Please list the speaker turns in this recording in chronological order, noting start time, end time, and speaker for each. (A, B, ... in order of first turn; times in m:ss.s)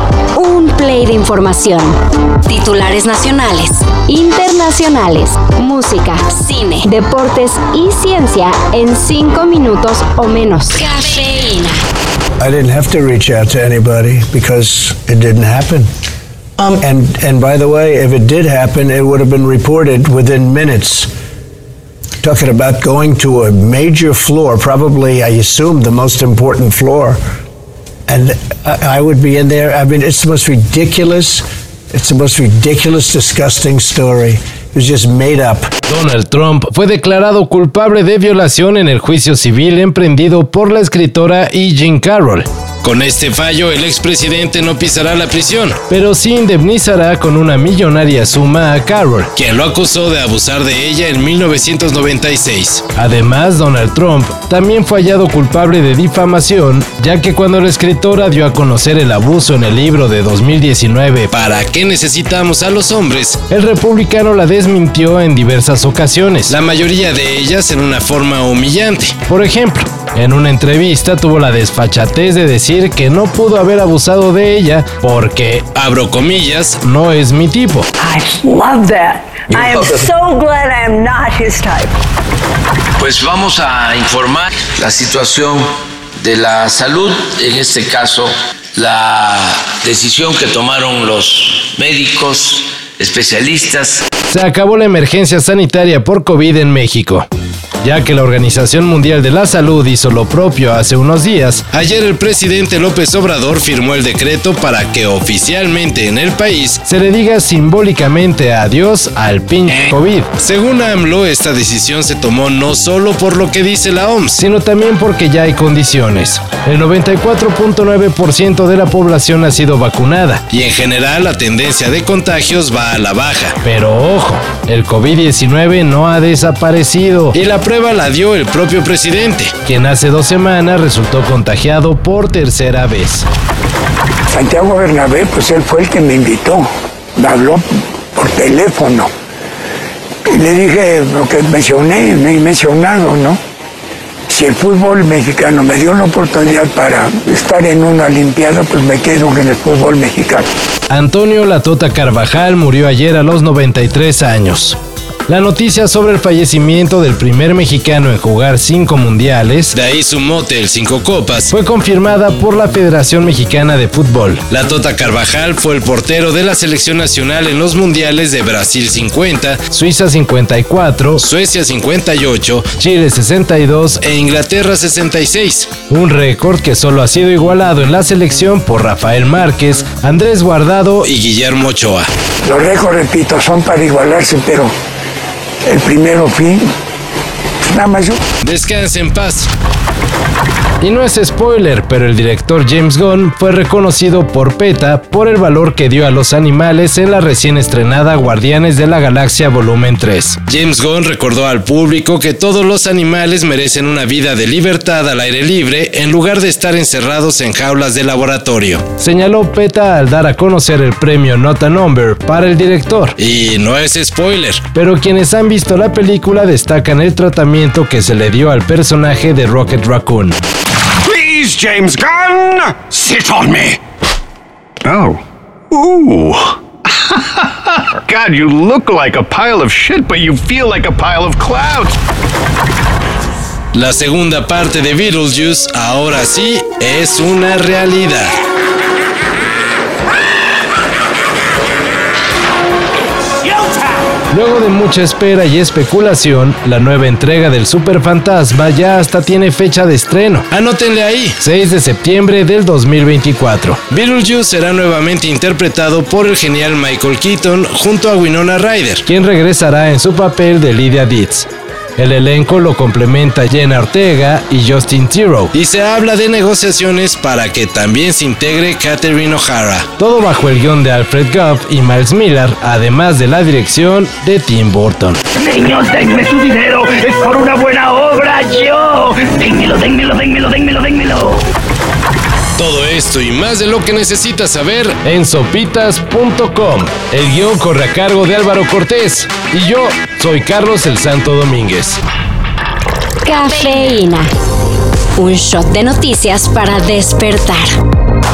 0:00.4-0:11.8 A
0:12.4-0:15.9 B
0:16.6-0:21.1 B
0:22.2-0:27.2 B
0:28.1-0:35.7 B
0:35.9-1:17.9 C
1:18.0-1:22.0 D
1:23.0-1:34.0 E
1:34.3-1:37.3 C
1:37.8-2:13.3 C
2:14.3-2:19.1 F
2:20.3-2:23.4 F
2:24.3-2:30.5 F
2:30.9-3:02.1 C
3:02.4-3:04.7 F
3:05.6-3:06.6 F
3:07.6-3:08.2 F
3:08.4-3:09.5 C
3:10.8-3:40.4 C
3:41.0-3:43.8 G
3:44.8-3:52.0 G
3:53.7-3:58.4 C
4:04.3-4:35.2 C
4:35.4-4:41.4 H
4:42.6-4:52.0 C
4:53.2-4:54.3 A
4:55.2-4:57.7 A